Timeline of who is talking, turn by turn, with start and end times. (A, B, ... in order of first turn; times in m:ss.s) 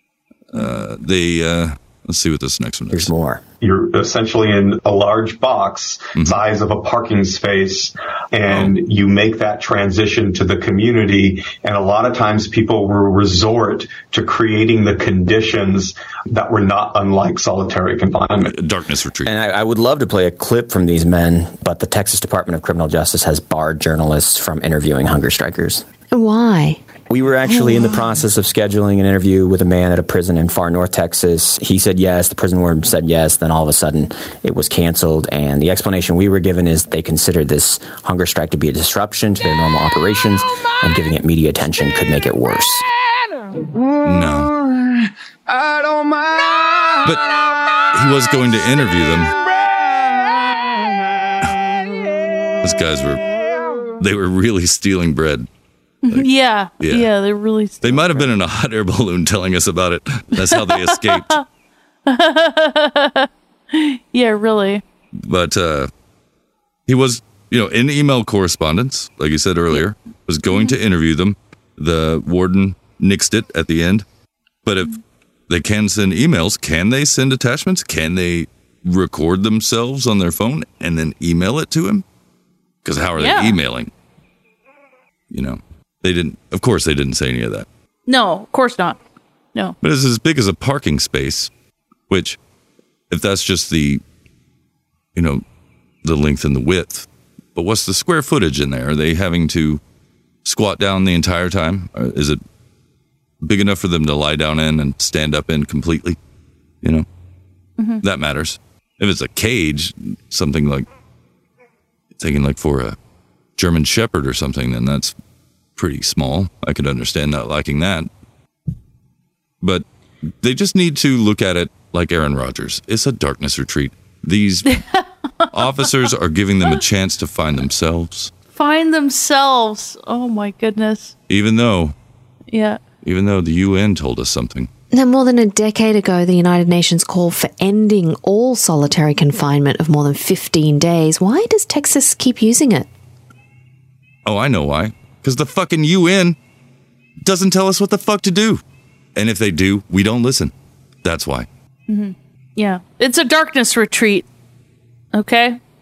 0:00.5-0:03.1 A
0:02.9-0:03.4 B
0:03.6-0:18.5 C
0:06.2-0:06.4 A
0:08.5-0:08.8 A
0:18.4-0:19.3 A
0:19.2-0:25.8 B
0:26.1-0:26.8 D
0:27.1-0:42.8 B
0:27.5-0:28.0 D
0:44.0-0:44.5 A
0:47.9-0:49.4 A
0:52.6-0:53.2 A
0:54.0-0:55.5 A
0:56.0-0:58.3 E
0:56.8-0:57.1 A
0:57.8-1:01.4 A
1:00.4-1:01.4 E
1:02.1-1:04.8 E
1:05.2-1:05.9 A
1:06.9-1:14.0 A
1:10.5-1:10.8 E
1:14.6-1:14.9 A
1:15.5-1:22.0 A
1:22.8-1:23.9 A
1:23.2-1:23.6 E
1:25.3-1:27.7 A
1:28.1-1:29.0 E
1:29.8-1:31.5 A
1:32.1-1:32.4 A
1:33.1-1:34.0 A
1:35.2-1:35.4 A
1:36.0-1:39.8 A
1:40.4-1:42.4 A
1:43.4-1:46.2 A
1:47.8-1:48.0 E
1:48.0-1:50.9 A
1:52.2-1:53.0 A
1:53.6-1:55.2 A
1:55.8-1:58.1 A
2:00.4-2:04.7 A
2:04.7-2:06.1 E
2:05.5-2:08.3 A
2:08.5-2:11.1 E
2:11.3-2:11.9 A
2:12.5-2:12.8 E
2:13.0-2:14.7 A
2:14.9-2:22.9 D
2:24.2-2:26.4 A
2:27.2-2:28.6 A
2:29.2-2:31.5 A
2:31.9-2:34.3 E
2:35.1-2:35.6 E